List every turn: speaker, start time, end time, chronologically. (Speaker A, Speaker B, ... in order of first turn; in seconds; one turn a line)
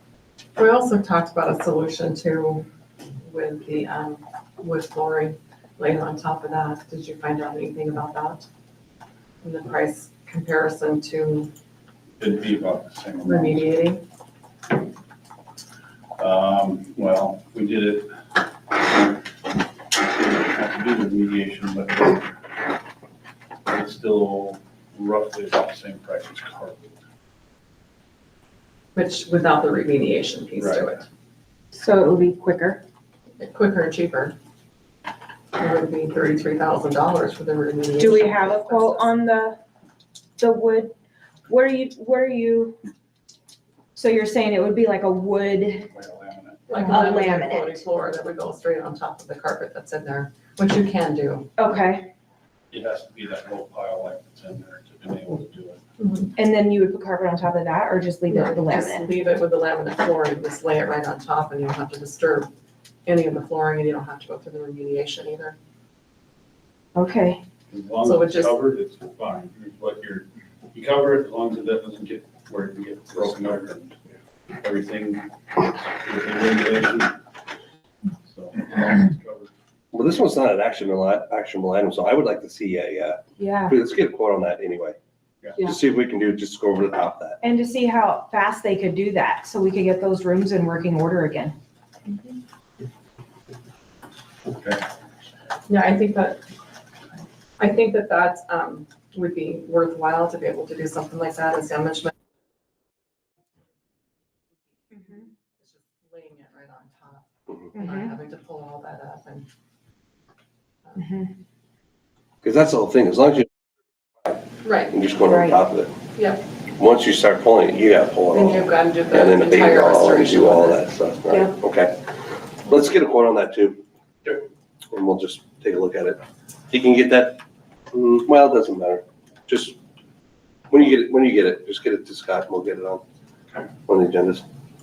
Speaker A: 0.6-2.7
Speaker A: 3.2-8.4
Speaker A: 9.4-11.5
Speaker B: 12.2-13.7
Speaker A: 13.2-14.0
Speaker B: 16.2-18.2
Speaker B: 18.7-19.3
Speaker B: 19.9-22.4
Speaker B: 23.7-27.0
Speaker A: 28.9-31.1
Speaker B: 30.6-30.9
Speaker C: 31.7-32.8
Speaker A: 33.4-34.4
Speaker A: 35.5-39.1
Speaker C: 38.0-39.6
Speaker C: 40.4-41.0
Speaker C: 41.5-42.8
Speaker C: 44.0-45.9
Speaker B: 45.9-46.8
Speaker A: 46.7-51.5
Speaker C: 46.8-47.9
Speaker C: 51.6-52.1
Speaker B: 52.7-55.8
Speaker A: 56.0-56.3
Speaker C: 56.4-59.4
Speaker A: 58.3-62.5
Speaker A: 63.1-65.6
Speaker C: 67.0-67.4
Speaker B: 67.7-74.0
Speaker A: 68.0-68.6
Speaker B: 74.6-77.2
Speaker B: 78.2-79.5
Speaker D: 79.9-85.0
Speaker C: 83.4-83.8
Speaker B: 85.4-85.7
Speaker D: 85.6-87.4
Speaker C: 87.4-91.6
Speaker B: 94.5-94.8
Speaker A: 95.7-96.4
Speaker A: 97.6-102.1
Speaker C: 104.9-105.2
Speaker A: 105.1-109.5
Speaker C: 107.8-108.1
Speaker A: 110.8-111.2
Speaker C: 111.0-111.3
Speaker D: 112.4-113.5
Speaker A: 114.6-115.0
Speaker D: 114.9-115.9
Speaker C: 115.3-115.6
Speaker A: 116.2-116.4
Speaker D: 116.8-122.1
Speaker A: 118.3-120.8
Speaker D: 122.6-127.4
Speaker D: 127.9-129.8
Speaker D: 130.7-133.0
Speaker D: 133.9-134.4